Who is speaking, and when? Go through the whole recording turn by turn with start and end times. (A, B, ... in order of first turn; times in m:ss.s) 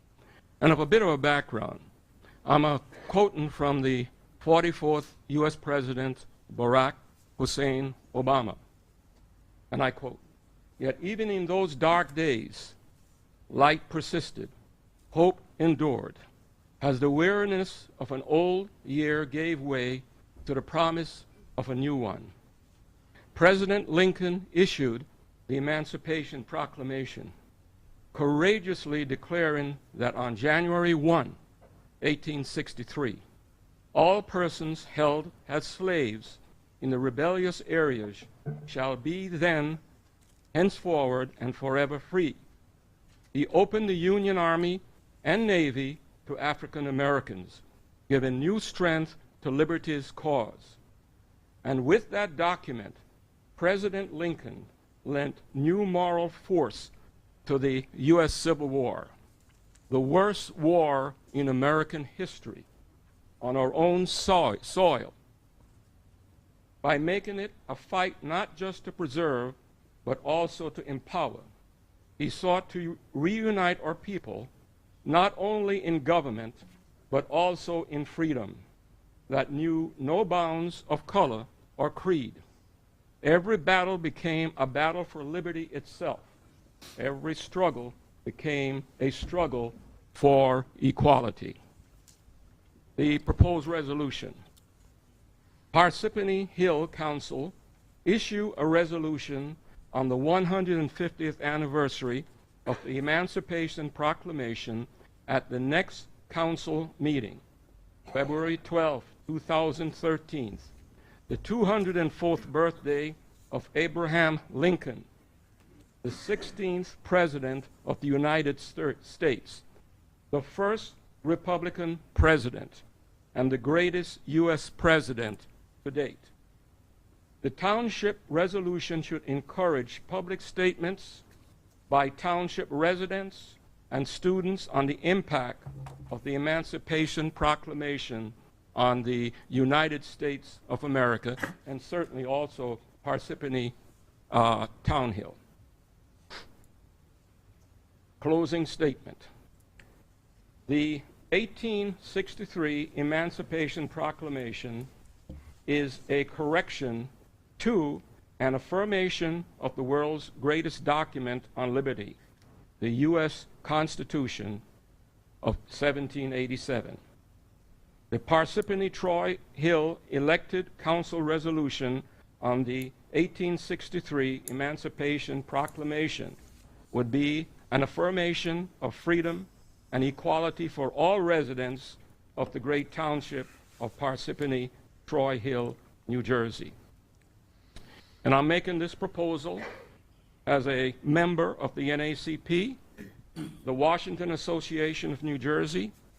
0:00.6-0:01.8 A
0:02.4-0:08.6 A
0:09.7-0:10.2 A
0:10.8-0:12.8 A
0:13.5-0:14.5 A
0:15.1-0:16.2 A
0:16.8-0:22.3 A
0:23.3-0:27.3 A
0:28.1-0:31.4 A
0:32.0-0:33.2 A
0:33.9-0:39.8 A
0:40.5-0:42.4 A
0:43.3-0:50.8 A
0:51.6-0:53.0 A
0:53.6-0:56.9 A
0:57.4-0:59.1 A
0:59.9-1:02.6 A
1:03.4-1:05.1 A
1:06.8-1:11.4 A
1:12.2-1:14.5 A
1:15.0-1:18.6 A
1:19.3-1:22.4 A
1:23.2-1:26.3 A
1:27.0-1:31.6 A
1:33.0-1:34.4 A
1:35.7-1:37.5 A
1:38.0-1:47.4 A
1:48.1-1:50.7 A
1:51.3-1:55.0 A
1:56.0-1:59.6 A
2:00.3-2:02.8 A
2:03.3-2:06.3 A
2:07.4-2:11.2 A
2:11.9-2:23.7 A
2:24.3-2:25.4 A
2:28.2-2:29.3 A
2:30.7-2:34.9 A
2:35.6-2:42.2 A
2:42.8-2:44.6 A
2:45.4-2:47.0 A
2:48.1-2:56.4 A
2:56.9-3:06.7 A
3:08.2-3:09.6 A
3:10.4-3:12.8 A
3:13.6-3:15.9 A